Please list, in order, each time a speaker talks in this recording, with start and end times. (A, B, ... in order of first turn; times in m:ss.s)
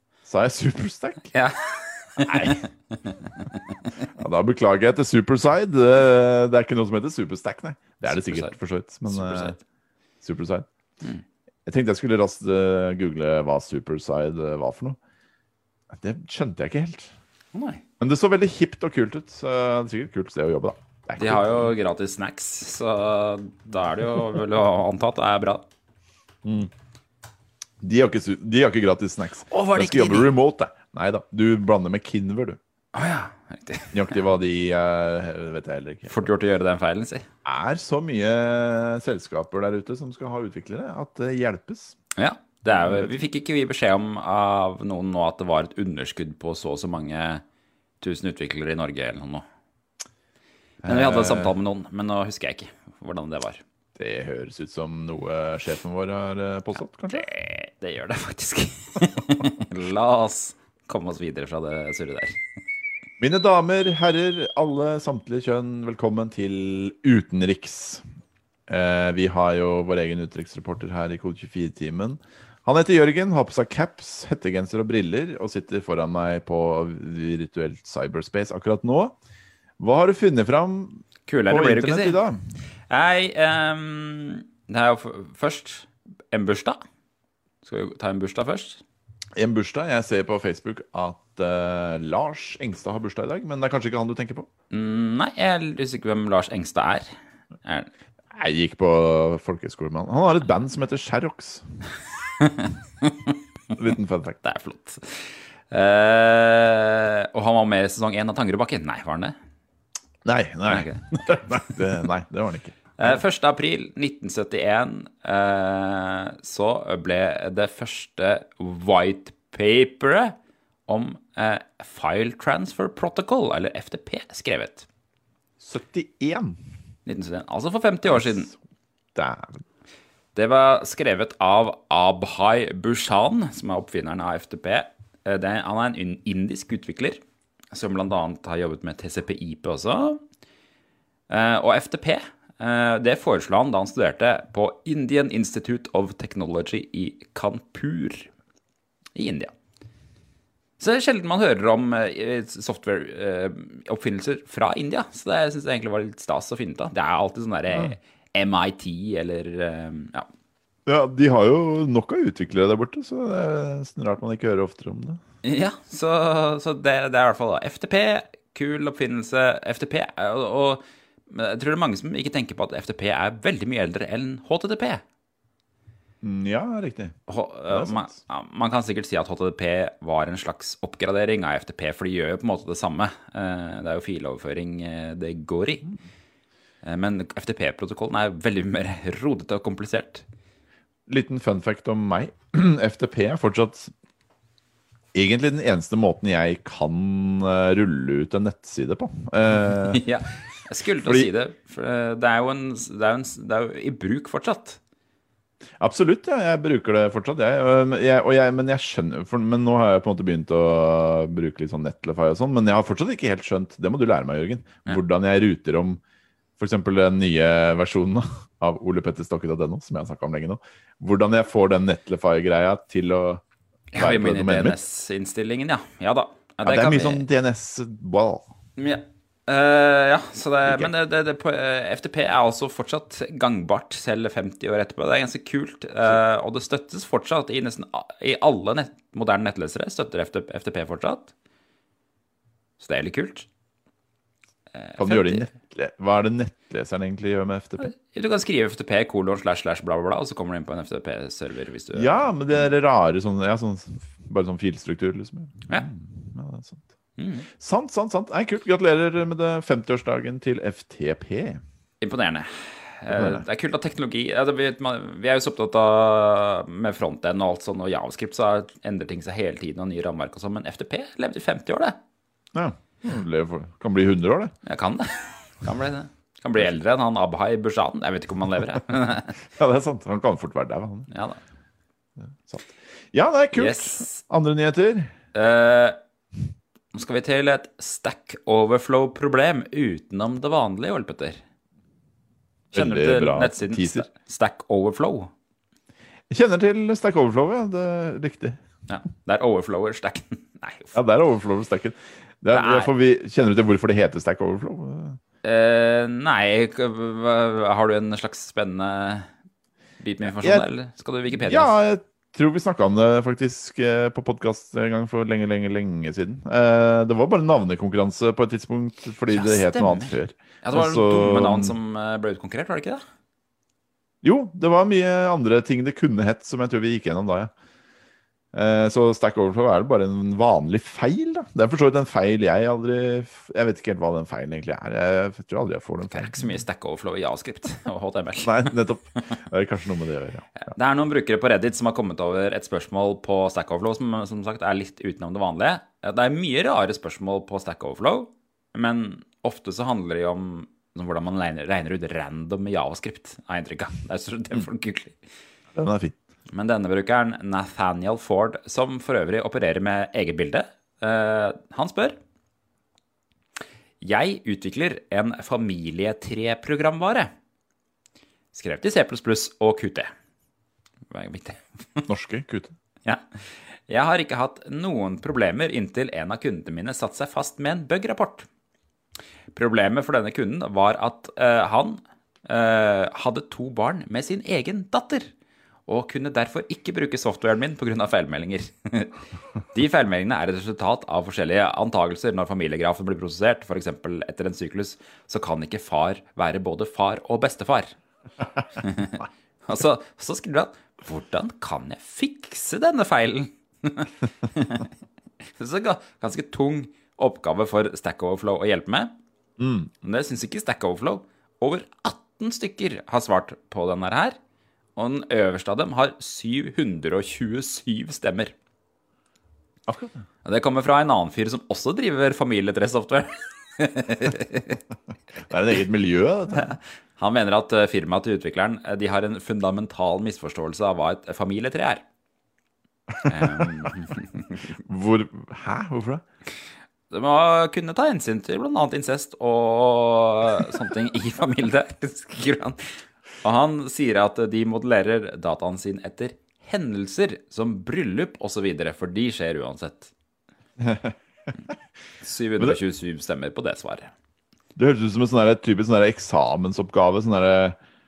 0:00.2-0:01.3 A
0:01.3-0:04.0 B
0:02.2-0:02.6 A
0:04.1-0:09.6 A
0:08.0-0:08.6 B
0:09.1-0:09.6 B
0:10.2-0:10.7 A
0:11.6-0:15.0 A
0:15.9-0:17.1 A
0:17.5-0:17.8 B
0:18.0-0:21.7 A
0:21.2-0:25.6 B
0:26.4-0:26.7 A
0:27.8-0:32.6 A
0:29.5-0:30.3 B
0:32.9-0:34.2 B
0:33.9-0:36.2 A
0:36.1-0:37.3 B
0:37.4-0:42.0 A
0:42.2-0:47.4 B
0:42.7-0:43.2 A
0:48.0-0:49.4 B
0:50.8-0:51.5 A
0:50.8-0:53.6 B
0:54.0-0:57.3 A
0:57.1-1:02.4 B
1:03.2-1:08.0 A
1:08.7-1:19.2 A
1:19.8-1:22.4 A
1:21.3-1:22.2 B
1:22.9-1:26.8 B
1:27.6-1:28.8 B
1:29.4-1:34.5 A
1:34.7-1:37.1 B
1:37.6-1:37.9 B
1:38.3-1:41.8 A
1:42.4-1:43.8 B
1:43.8-1:44.4 A
1:44.4-1:49.4 B
1:50.2-1:53.2 A
1:50.7-1:51.8 B
1:53.0-2:04.9 B
2:05.6-2:06.6 A
2:07.0-2:08.5 B
2:09.1-2:09.6 A
2:10.4-2:17.2 B
2:17.7-2:20.2 B
2:21.3-2:28.3 B
2:29.1-2:29.5 B
2:30.8-2:40.3 B
2:40.9-2:45.2 A
2:45.4-2:55.0 B
2:56.2-2:57.2 A
2:57.3-3:05.9 B
2:57.7-2:58.1 A
3:06.8-3:10.2 B
3:11.1-3:13.9 A
3:15.1-3:20.0 A
3:19.6-3:24.8 B
3:21.0-3:21.3 A
3:25.8-3:36.0 A
3:36.6-3:43.4 A
3:43.9-3:47.2 B
3:44.0-3:44.8 A
3:46.6-3:48.5 A
3:48.8-4:01.3 B
4:02.8-4:03.5 B
4:04.8-4:05.5 B
4:05.0-4:07.9 A
4:07.8-4:12.2 B
4:11.9-4:16.8 A
4:17.2-4:17.5 B
4:17.5-4:21.6 A
4:22.0-4:32.0 B
4:23.1-4:23.4 A
4:32.5-4:34.5 A
4:34.6-4:39.4 B
4:39.6-4:41.1 A
4:41.1-4:41.4 B
4:42.5-4:45.1 A
4:43.5-4:44.2 B
4:45.3-4:46.0 B
4:46.9-4:51.4 B
4:52.7-4:54.1 A
4:52.7-4:55.3 B
4:56.3-4:58.6 A
4:58.9-5:01.0 B
5:00.9-5:05.2 A
5:02.5-5:02.9 B
5:05.4-5:09.3 B
5:10.0-5:11.7 B
5:10.2-5:10.7 A
5:11.3-5:21.8 A
5:19.3-5:23.0 B
5:24.2-5:27.5 A
5:28.5-5:36.5 A
5:36.1-5:39.4 B
5:38.4-5:40.6 A
5:40.6-5:55.2 B
5:55.7-5:56.2 A
5:56.5-6:02.2 B
6:04.0-6:07.3 B
6:08.5-6:10.1 B
6:11.1-6:12.1 B
6:12.1-6:12.7 A
6:13.0-6:18.5 B
6:19.5-6:25.3 B
6:25.9-6:29.2 B
6:29.7-6:38.0 B
6:38.8-6:44.9 B
6:45.5-6:49.1 B
6:49.6-6:49.9 A
6:50.0-6:54.4 B
6:55.0-6:58.5 B
6:59.9-7:00.2 A
7:00.4-7:04.8 B
7:05.4-7:06.7 A
7:06.5-7:12.0 B
7:13.1-7:13.9 A
7:13.2-7:14.7 B
7:14.7-7:16.2 A
7:17.1-7:30.1 B
7:30.8-7:31.5 A
7:32.2-7:34.1 B
7:34.8-7:37.8 A